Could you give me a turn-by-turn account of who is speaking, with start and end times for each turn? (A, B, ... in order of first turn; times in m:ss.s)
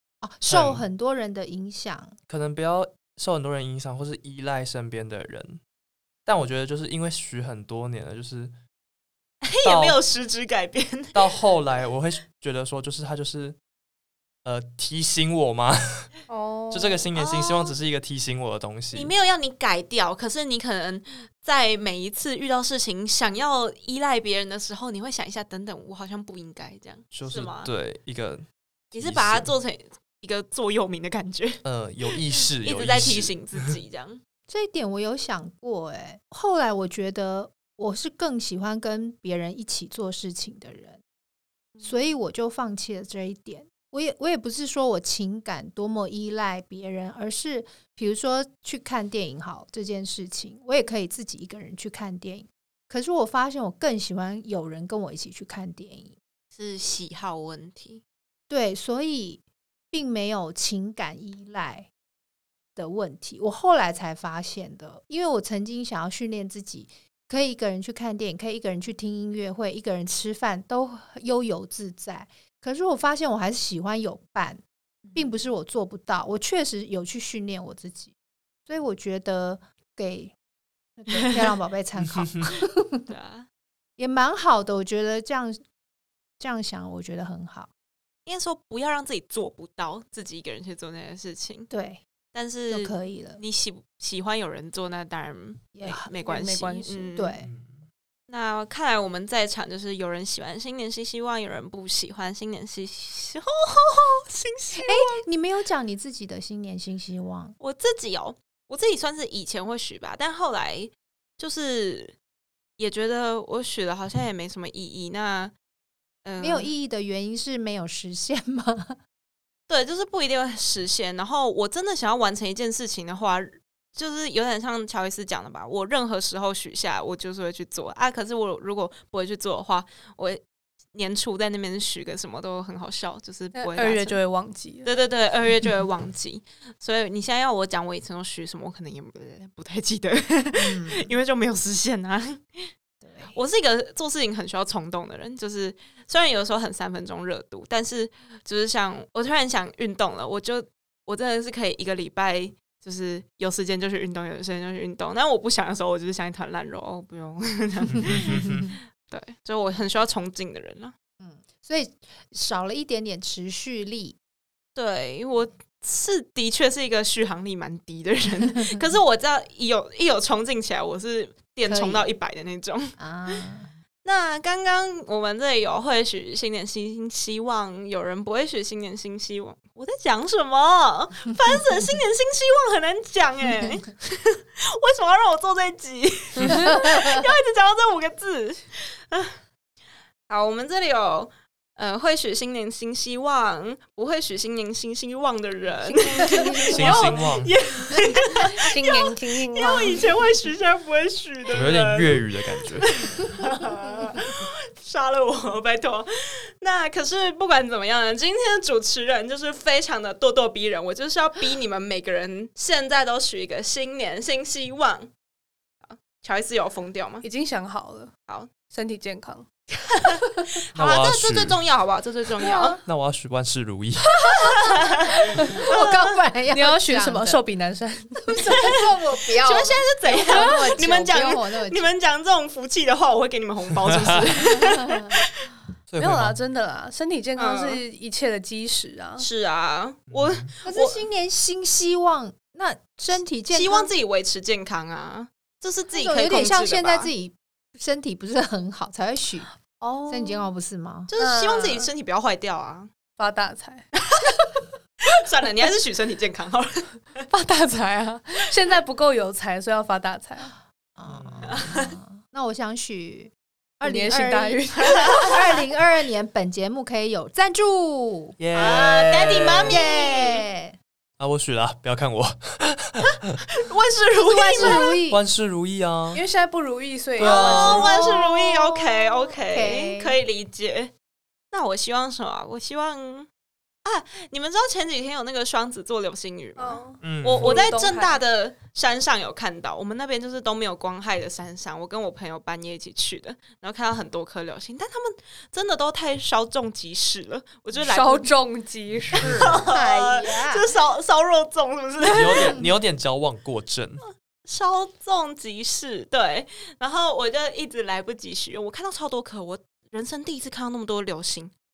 0:00.2-0:02.2 A
0:00.4-0:00.8 B
0:02.3-0:05.6 B
0:06.2-0:08.5 B
0:09.4-0:11.2 C
0:09.6-0:10.0 B
0:11.1-0:13.6 B
0:14.4-0:16.1 B
0:16.3-0:17.1 D
0:16.7-0:19.1 B
0:17.1-0:17.7 C
0:18.9-0:27.7 C
0:27.1-0:29.5 B
0:28.9-0:34.2 C
0:31.6-0:33.7 B
0:34.5-0:41.0 A
0:41.8-0:56.2 A
0:56.5-0:58.0 C
0:58.5-1:01.9 A
1:02.8-1:14.6 A
1:15.1-1:18.1 A
1:18.6-1:20.3 A
1:21.0-1:23.1 A
1:23.1-1:23.5 C
1:24.0-1:25.6 A
1:26.4-1:27.7 A
1:28.2-1:31.7 C
1:31.7-1:32.0 A
1:32.3-1:37.4 C
1:32.7-1:33.4 A
1:35.7-1:36.1 A
1:36.2-1:37.1 D
1:37.2-1:37.5 A
1:37.4-1:37.9 B
1:38.3-1:45.2 C
1:44.8-1:47.6 A
1:47.6-1:52.2 C
1:52.8-1:55.5 C
1:56.2-1:56.7 C
1:56.4-1:59.0 A
1:59.7-2:10.4 C
2:10.9-2:14.2 C
2:13.5-2:14.9 D
2:14.8-2:22.7 C
2:20.6-2:21.1 A
2:23.0-2:23.4 A
2:23.3-2:40.9 C
2:37.9-2:38.7 B
2:41.2-2:44.2 A
2:44.8-2:53.4 C
2:51.6-2:52.1 A
2:53.0-2:53.7 A
2:54.0-3:09.4 C
3:10.3-3:22.3 C
3:15.8-3:17.1 D
3:16.7-3:17.5 B
3:18.5-3:20.0 D
3:21.5-3:23.3 B
3:22.8-3:26.1 C
3:26.6-3:35.1 C
3:35.8-3:37.2 C
3:37.2-3:38.1 D
3:38.7-3:39.5 D
3:40.0-3:42.8 C
3:40.7-3:41.6 B
3:42.5-3:42.8 D
3:42.8-3:44.1 B
3:44.3-3:44.7 A
3:44.4-3:46.1 C
3:45.3-3:47.4 A
3:46.5-3:48.5 D
3:48.2-3:51.9 A
3:48.4-3:55.5 C
3:54.4-3:55.2 A
3:55.9-3:56.4 B
3:56.0-3:59.3 D
3:57.4-3:57.8 C
3:59.2-4:01.0 C
4:00.1-4:00.5 B
4:00.6-4:03.9 A
4:03.5-4:07.1 C
4:05.9-4:09.5 A
4:09.8-4:10.5 D
4:10.1-4:11.1 A
4:11.1-4:12.9 C
4:11.2-4:11.9 D
4:13.2-4:13.9 D
4:14.0-4:14.3 C
4:15.0-4:17.3 C
4:17.3-4:20.5 D
4:21.0-4:28.4 A
4:21.1-4:21.5 B
4:21.5-4:21.9 C
4:23.8-4:25.3 D
4:24.8-4:25.3 C
4:28.4-4:29.8 B
4:28.5-4:30.4 C
4:29.7-4:30.8 A
4:31.2-4:33.4 B
4:33.5-4:34.9 C
4:34.2-4:35.2 A
4:35.1-4:36.2 B
4:36.1-4:38.3 D
4:37.2-4:37.9 B
4:37.2-4:40.9 C
4:37.9-4:38.3 A
4:39.3-4:40.2 A
4:41.5-4:43.3 C
4:43.8-4:58.3 C
4:46.6-4:48.2 D
4:47.0-4:47.6 B
4:57.8-4:59.6 D
4:59.4-5:02.6 C
4:59.7-5:00.6 A
5:02.1-5:04.0 B
5:04.0-5:11.5 C